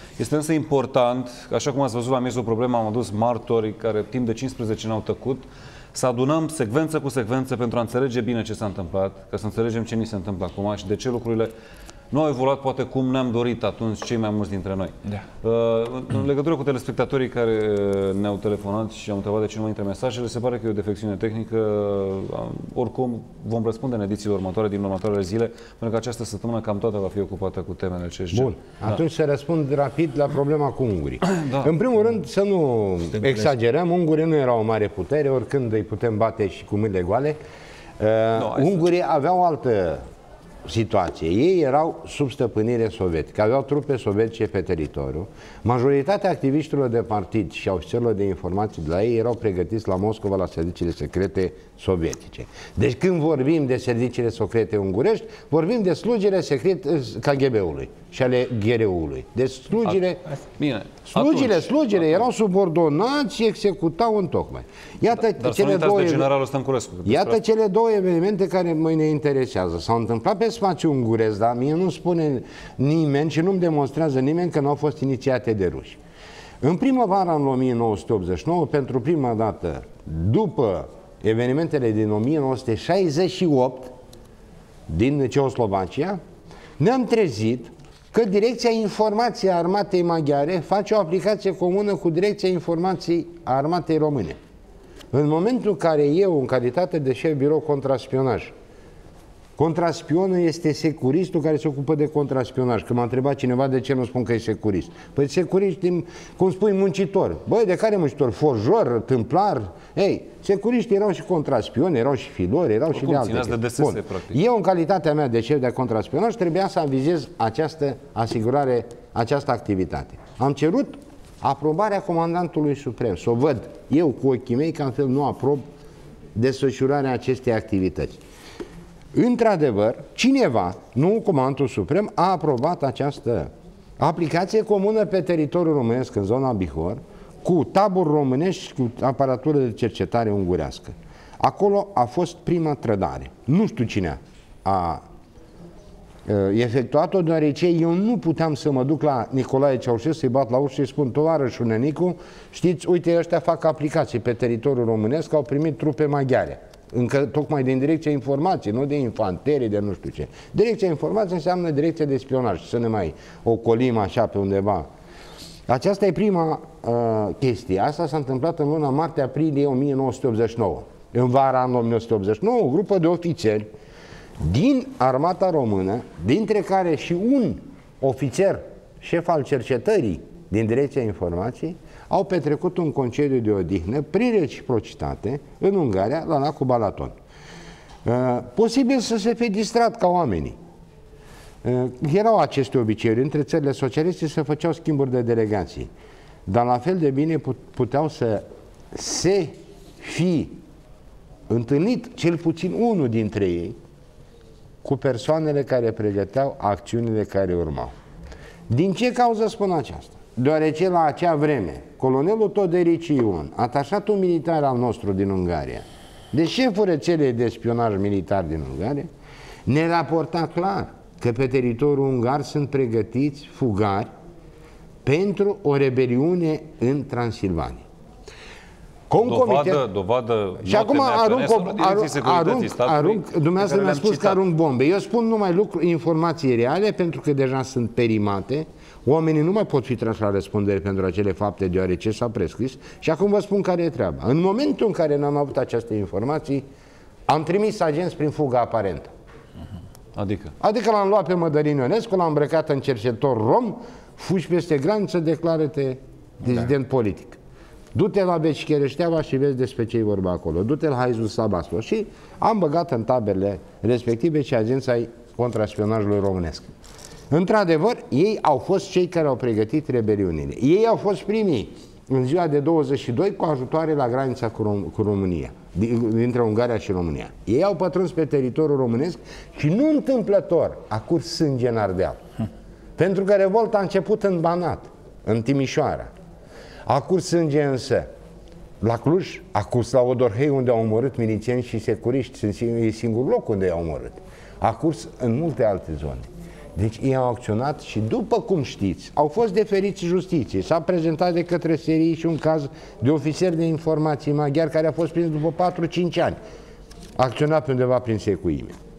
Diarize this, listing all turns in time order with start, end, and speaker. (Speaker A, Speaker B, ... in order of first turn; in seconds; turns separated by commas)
Speaker A: 0.2-11.5, Speaker A: 12.1-28.8, Speaker B: 28.3-37.4, Speaker A: 31.3-31.7, Speaker B: 38.0-40.0, Speaker A: 38.4-38.8, Speaker B: 40.6-60.2, Speaker A: 60.6-62.2, Speaker B: 61.1-66.3, Speaker A: 65.2-67.4, Speaker B: 67.0-76.0, Speaker B: 76.6-83.9, Speaker B: 84.9-86.2, Speaker B: 86.8-94.4, Speaker B: 95.1-98.5, Speaker B: 99.6-125.6, Speaker A: 112.9-114.4, Speaker B: 126.3-128.2, Speaker B: 129.1-145.0, Speaker B: 146.3-164.9, Speaker B: 165.7-173.7, Speaker B: 174.4-187.1, Speaker B: 188.0-190.6, Speaker B: 191.6-195.9, Speaker B: 196.5-200.6, Speaker B: 201.5-203.8, Speaker B: 204.8-207.9, Speaker B: 208.7-219.1, Speaker B: 219.7-224.1, Speaker B: 225.0-227.8, Speaker B: 229.1-229.8, Speaker A: 229.2-234.4, Speaker B: 230.7-246.7, Speaker B: 247.3-249.1, Speaker A: 250.2-250.5, Speaker B: 250.6-257.4, Speaker B: 257.9-266.7, Speaker B: 267.3-282.2, Speaker B: 283.0-286.1, Speaker B: 286.9-288.1, Speaker B: 288.8-306.4, Speaker B: 307.2-308.8